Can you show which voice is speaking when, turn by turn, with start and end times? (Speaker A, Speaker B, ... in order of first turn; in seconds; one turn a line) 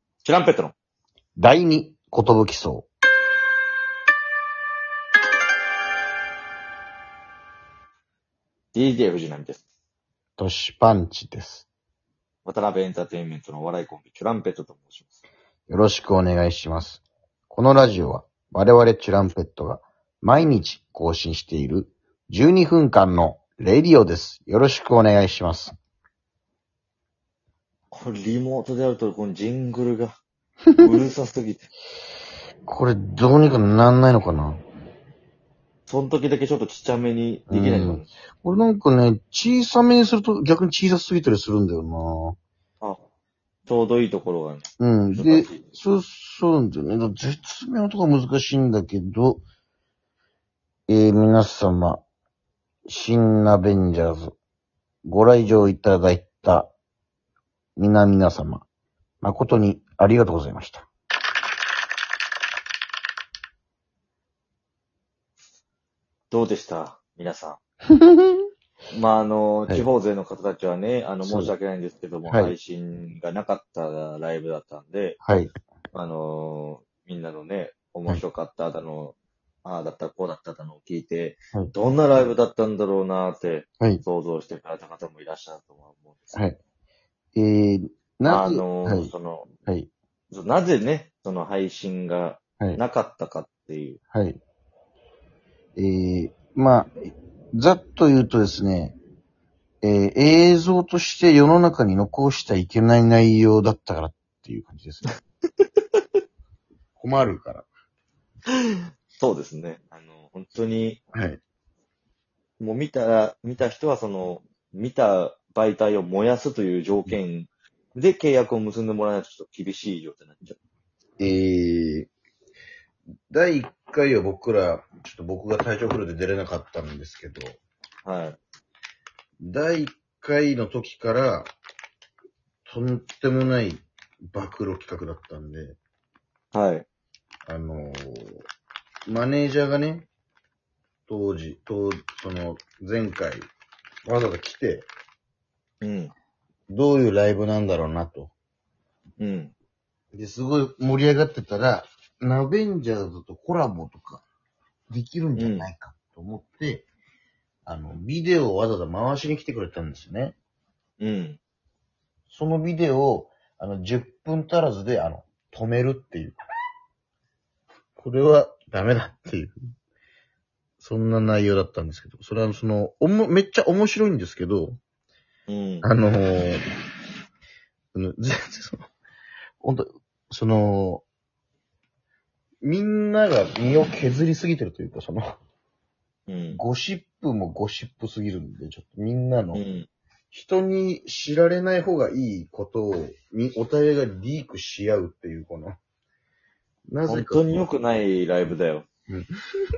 Speaker A: 0.2-0.7
Speaker B: 1.4-2.9
Speaker A: 8.7-9.6
Speaker B: 10.4-11.7
Speaker A: 12.4-15.2
Speaker B: 15.7-25.7
Speaker A: 27.9-30.1
Speaker B: 30.7-31.0
Speaker A: 30.8-31.7
Speaker B: 32.7-34.6
Speaker A: 35.9-38.1
Speaker B: 37.5-42.4
Speaker A: 43.7-45.6
Speaker B: 44.8-49.4
Speaker B: 50.9-52.0
Speaker B: 52.9-54.4
Speaker B: 55.0-56.7
Speaker B: 57.8-58.7
Speaker B: 59.2-60.9
Speaker A: 66.3-67.6
Speaker B: 67.9-68.5
Speaker A: 68.9-75.2
Speaker B: 71.2-71.5
Speaker B: 72.3-72.6
Speaker B: 75.2-75.5
Speaker A: 75.9-86.4
Speaker B: 86.3-86.6
Speaker B: 87.3-89.1
Speaker A: 88.3-89.5
Speaker A: 90.3-94.0
Speaker B: 94.1-94.4
Speaker B: 95.8-96.9
Speaker B: 97.5-99.0
Speaker B: 99.8-105.1
Speaker B: 107.0-107.7
Speaker A: 109.2-111.0
Speaker B: 111.1-111.4
Speaker A: 112.6-120.6
Speaker B: 121.2-122.1
Speaker B: 123.3-127.6
Speaker A: 128.1-128.4
Speaker B: 129.4-131.5
Speaker B: 132.7-135.8
Speaker A: 136.5-136.9
Speaker B: 137.5-138.4
Speaker B: 139.1-140.1
Speaker B: 141.1-143.4
Speaker B: 144.1-144.9
Speaker A: 145.8-146.1
Speaker B: 146.7-148.3
Speaker A: 149.2-149.5
Speaker B: 150.1-154.2
Speaker B: 154.9-156.9
Speaker A: 155.3-155.7
Speaker B: 157.7-160.4
Speaker A: 161.0-161.4
Speaker B: 162.3-166.4
Speaker B: 168.0-169.6
Speaker B: 170.8-174.8
Speaker A: 175.5-175.9
Speaker B: 175.8-176.6
Speaker B: 177.9-178.9
Speaker B: 179.6-181.0
Speaker B: 182.6-185.4
Speaker A: 186.3-186.6
Speaker B: 186.5-189.6
Speaker A: 189.5-189.9
Speaker B: 190.3-195.8
Speaker B: 196.9-197.7
Speaker A: 197.1-198.9